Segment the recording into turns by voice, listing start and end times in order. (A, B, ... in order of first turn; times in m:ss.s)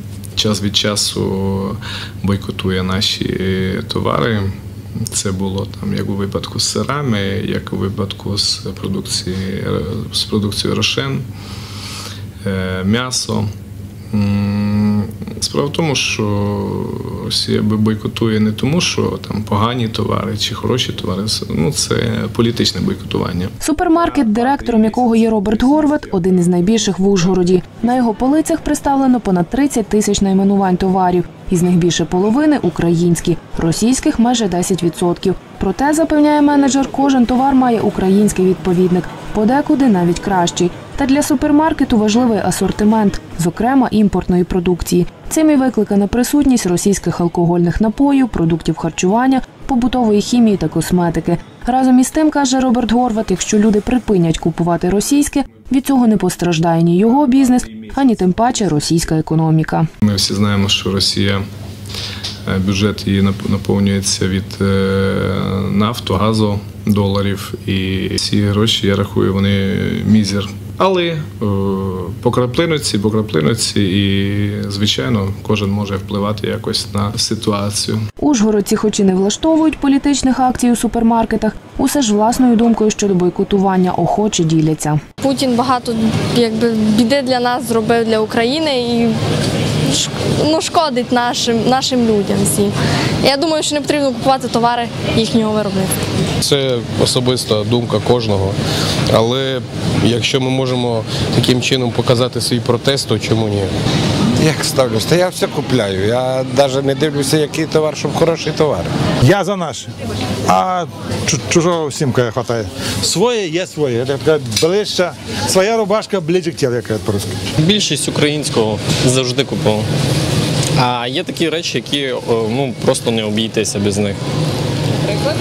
0:00.4-0:04.5 A
0:05.1-0:11.3 A
0:12.4-0:13.5 A
0:14.1-0:23.6 A
0:23.6-0:59.9 B
0:24.2-0:24.8 A
1:00.0-1:01.4 A
1:02.5-1:18.0 A
1:18.2-1:25.0 B
1:25.2-1:29.2 C
1:29.9-1:35.9 C
1:36.4-1:38.6 D
1:39.1-1:43.7 D
1:44.4-1:48.9 E
1:49.2-1:49.9 F
1:50.5-1:57.4 F
1:57.6-1:59.9 G
2:00.8-2:04.2 G